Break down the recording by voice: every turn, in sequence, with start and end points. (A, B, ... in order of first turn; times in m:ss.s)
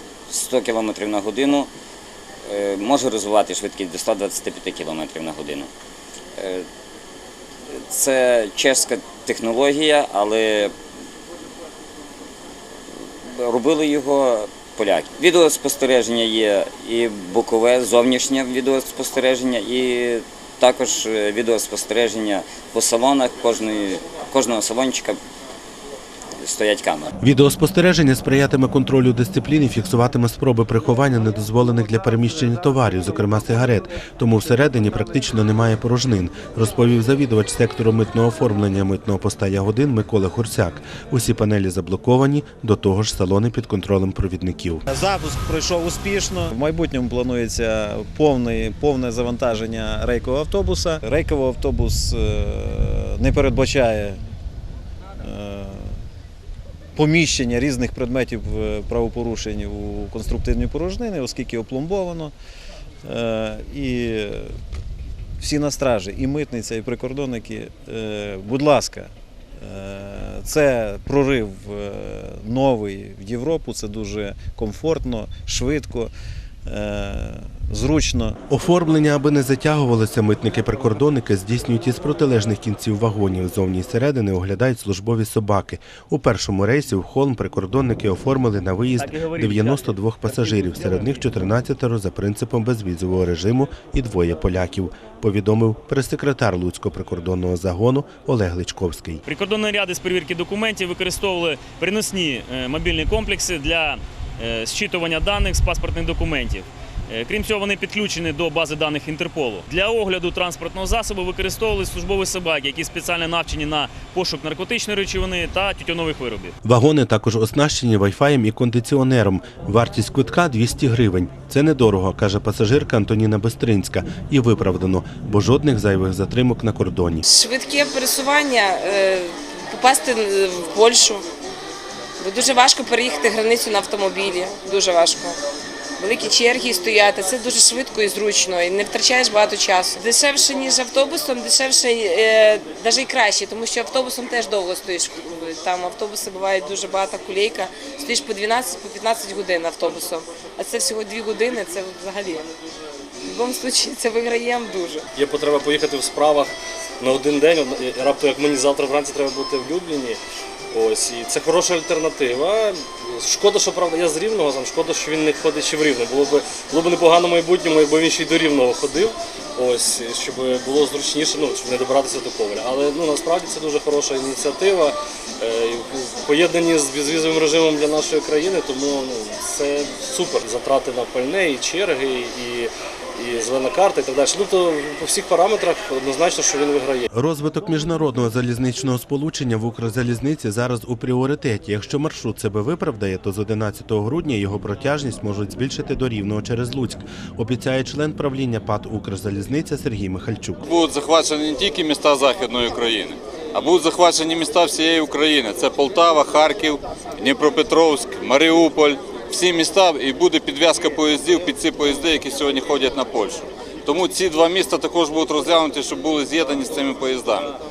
0:00.3-0:01.7 A
0:02.5-0:05.7 A
0:06.4-0:06.6 A
0:07.8-0:10.7 A
0:13.3-0:25.2 A
0:26.4-0:27.1 A
0:27.2-0:44.8 B
0:44.9-0:54.2 C
0:55.2-0:56.0 C
0:57.0-1:02.3 C
1:03.0-1:04.5 C
1:05.4-1:16.1 C
1:16.6-1:18.4 C
1:18.5-1:39.2 B
1:29.0-1:31.3 D
1:39.2-1:56.5 D
1:56.6-2:07.2 B
2:07.3-2:11.2 E
2:12.2-2:15.4 E
2:16.0-2:32.5 E
2:33.2-2:35.1 E
2:35.2-2:40.2 F
2:40.7-3:07.1 F
3:07.1-3:20.6 B
3:20.7-3:37.4 G